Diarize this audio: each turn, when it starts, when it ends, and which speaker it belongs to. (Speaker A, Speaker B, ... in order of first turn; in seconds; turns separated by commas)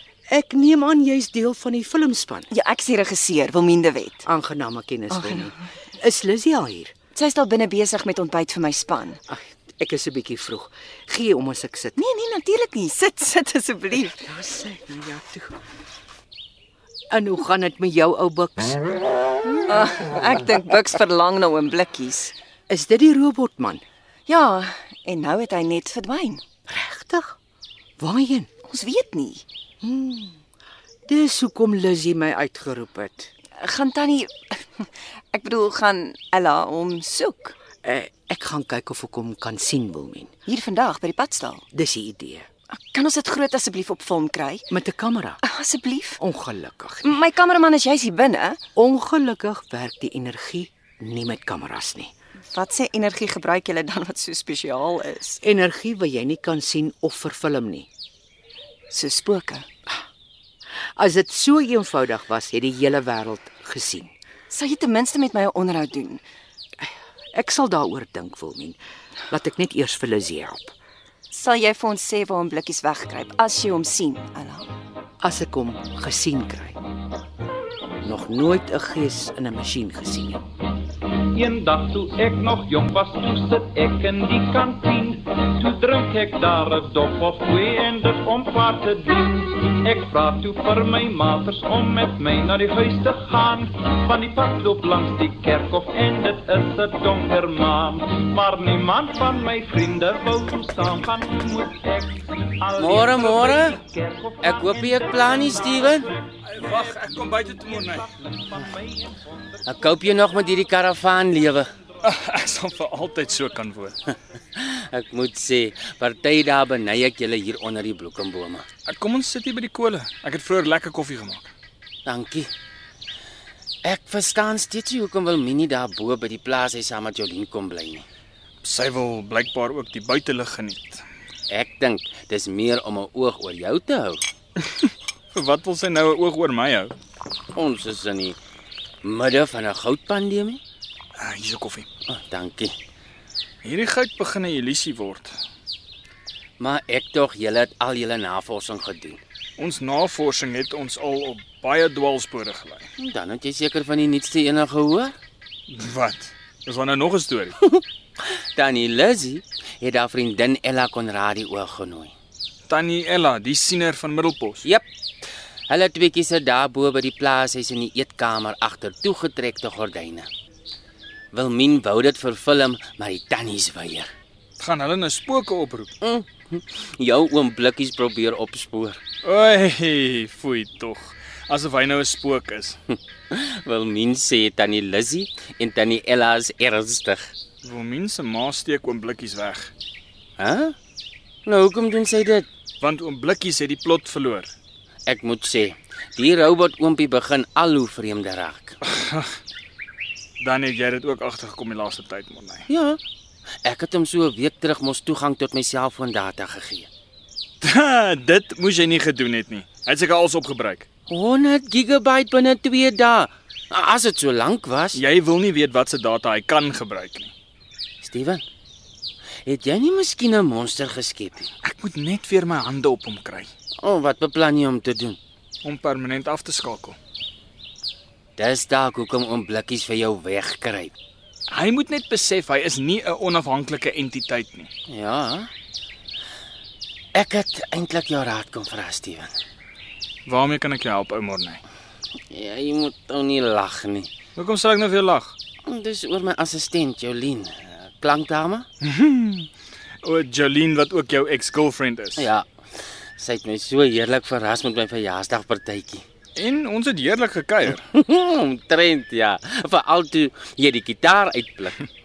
Speaker A: 0.3-2.5, Speaker B: 2.5-4.2, Speaker A: 4.2-6.9, Speaker B: 5.1-5.5, Speaker B: 7.2-9.2, Speaker A: 9.3-12.0, Speaker B: 12.0-14.3, Speaker A: 14.2-15.5, Speaker A: 17.1-18.8, Speaker B: 19.4-22.4, Speaker A: 22.7-23.8, Speaker B: 24.3-26.4, Speaker A: 26.7-27.4, Speaker A: 28.0-28.5, Speaker B: 28.7-29.4, Speaker A: 29.8-30.4, Speaker A: 31.1-33.3, Speaker B: 33.6-37.6, Speaker A: 37.8-40.3, Speaker B: 40.5-41.6, Speaker A: 41.7-42.5, Speaker B: 42.9-44.7, Speaker A: 44.7-45.4, Speaker B: 45.4-46.2, Speaker A: 46.2-47.2, Speaker B: 47.0-48.6, Speaker A: 48.8-52.1, Speaker B: 52.5-55.4, Speaker A: 55.4-57.9, Speaker B: 58.9-59.7, Speaker A: 61.0-64.1, Speaker B: 64.5-66.2, Speaker A: 66.8-68.8, Speaker A: 69.3-70.7, Speaker B: 71.3-74.7, Speaker A: 75.2-76.8, Speaker A: 78.0-80.4, Speaker C: 81.3-109.3, Speaker D: 102.8-103.8, Speaker D: 104.4-106.1, Speaker E: 106.4-108.1, Speaker D: 109.7-111.7, Speaker E: 112.0-114.0, Speaker D: 114.5-118.7, Speaker E: 118.9-121.5, Speaker D: 122.1-122.5, Speaker D: 123.8-128.1, Speaker E: 128.6-131.0, Speaker D: 131.5-134.2, Speaker E: 134.6-136.9, Speaker D: 137.6-138.4, Speaker D: 139.0-140.6, Speaker E: 141.2-141.9, Speaker D: 142.1-142.7, Speaker E: 143.6-145.3, Speaker D: 146.6-149.2, Speaker E: 149.6-152.9, Speaker D: 153.0-155.1, Speaker E: 155.7-157.6, Speaker D: 158.6-162.2, Speaker E: 162.7-164.6, Speaker D: 165.7-170.3, Speaker D: 171.3-174.1, Speaker E: 174.6-175.9, Speaker D: 176.0-179.0, Speaker E: 179.2-182.8, Speaker D: 182.9-187.3, Speaker E: 187.6-189.7, Speaker D: 190.4-190.8, Speaker D: 191.5-192.5, Speaker E: 192.8-194.5, Speaker D: 195.1-198.8, Speaker E: 198.8-199.4, Speaker E: 200.4-202.7, Speaker D: 202.7-203.0, Speaker D: 203.7-206.9, Speaker E: 207.6-210.9, Speaker D: 211.1-215.0, Speaker E: 214.9-217.3, Speaker D: 218.0-218.4, Speaker D: 219.5-221.5, Speaker E: 221.6-223.5, Speaker D: 223.8-225.2, Speaker E: 225.6-227.0, Speaker D: 228.4-230.9, Speaker E: 231.5-234.7, Speaker D: 234.9-235.5, Speaker D: 237.2-239.3, Speaker E: 240.3-241.6, Speaker D: 242.3-244.1, Speaker E: 244.4-245.4, Speaker D: 245.7-248.7, Speaker E: 248.8-249.5, Speaker E: 250.0-252.3, Speaker D: 252.2-252.5, Speaker D: 253.2-256.0, Speaker E: 256.4-257.9, Speaker D: 257.9-261.8